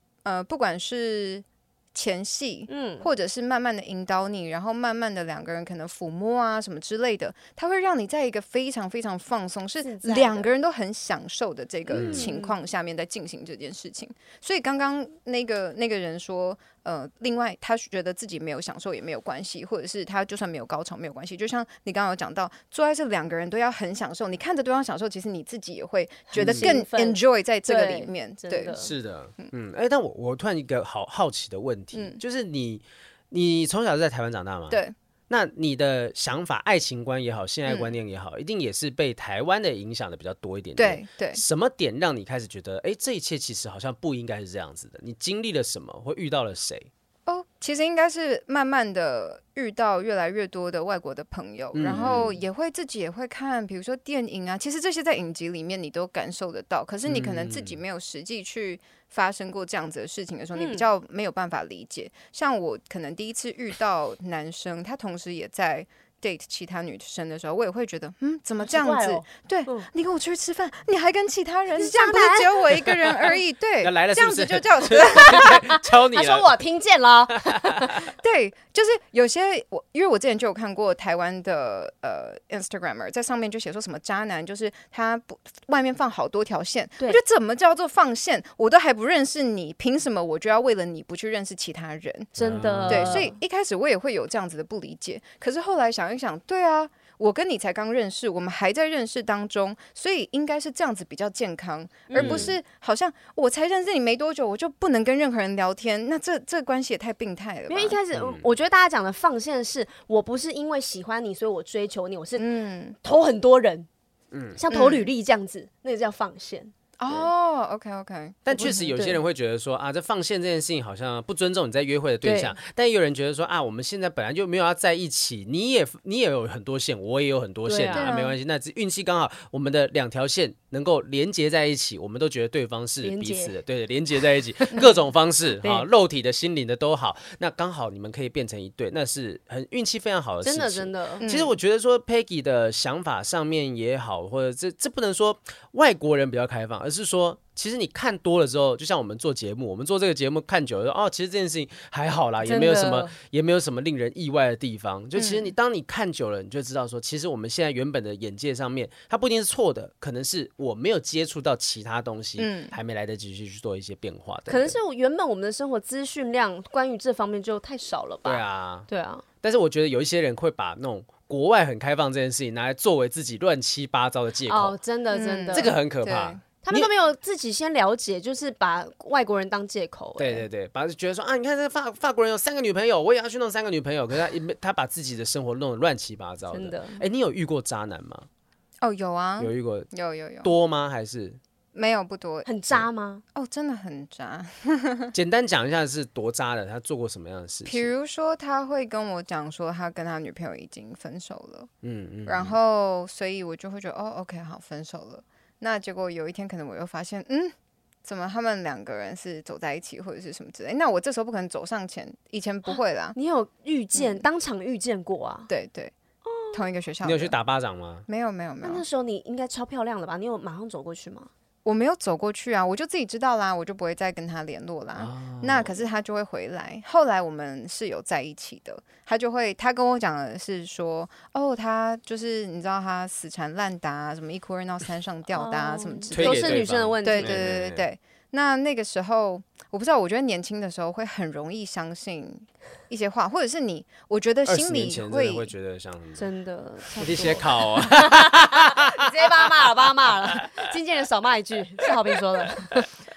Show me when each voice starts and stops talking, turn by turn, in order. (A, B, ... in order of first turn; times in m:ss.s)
0:00.2-0:29.5 A
0:02.7-0:03.1 B
0:09.8-0:10.5 B
0:11.9-0:12.6 B
0:11.9-0:12.3 C
0:26.3-0:28.9 B
0:26.4-0:26.7 C
0:28.8-0:46.9 C
0:31.9-0:32.2 A
0:37.7-0:37.9 A
0:40.8-0:41.4 A
0:47.3-1:15.6 A
0:51.7-0:52.4 C
0:51.9-0:52.2 B
0:57.1-0:57.8 C
1:00.6-1:00.9 B
1:08.6-1:09.9 B
1:11.7-1:12.9 B
1:12.8-1:13.2 C
1:13.8-1:16.5 C
1:15.2-1:18.0 B
1:17.4-1:18.0 C
1:18.2-1:32.3 A
1:32.4-1:33.3 C
1:32.4-1:33.4 B
1:32.9-1:48.0 A
1:42.1-1:42.6 B
1:42.1-1:42.5 C
1:47.7-1:53.9 B
1:48.1-1:48.5 C
1:52.4-1:53.0 A
1:54.3-1:54.6 C
1:54.6-1:57.3 B
1:54.7-1:55.1 A
1:57.0-1:58.9 A
1:58.5-2:44.8 C
1:58.6-1:59.2 B
2:02.2-2:02.6 B
2:07.7-2:08.1 B
2:07.9-2:08.4 A
2:13.0-2:13.5 B
2:14.6-2:14.9 B
2:15.6-2:15.9 B
2:20.4-2:21.2 B
2:21.2-2:21.6 A
2:32.4-2:33.1 B
2:35.2-2:35.5 A
2:42.4-2:42.7 A
2:44.5-2:49.2 B
2:48.2-2:48.9 C
2:49.4-2:54.8 C
2:54.5-2:55.7 B
2:55.1-2:56.4 A
2:55.5-2:56.9 C
2:56.6-3:00.5 B
3:00.2-3:08.3 C
3:06.5-3:07.0 B
3:08.8-3:10.5 A
3:09.4-3:09.9 C
3:10.4-3:11.4 C
3:11.7-3:12.5 A
3:12.5-3:13.2 B
3:13.4-3:15.1 A
3:15.1-3:17.9 C
3:17.7-3:21.7 A
3:21.8-3:22.6 C
3:22.3-3:27.5 A
3:28.0-3:33.2 A
3:32.7-3:35.5 B
3:33.9-3:34.2 A
3:35.5-3:35.9 A
3:36.2-3:36.7 B
3:36.5-3:37.4 A
3:37.0-3:38.1 C
3:38.1-3:38.8 A
3:38.6-3:41.3 B
3:41.6-4:05.5 A
3:45.0-3:45.8 C
3:55.3-3:57.4 B
3:56.1-3:57.8 C
4:04.5-4:06.3 C
4:06.2-4:12.8 B
4:06.9-4:10.7 C
4:11.8-4:12.1 C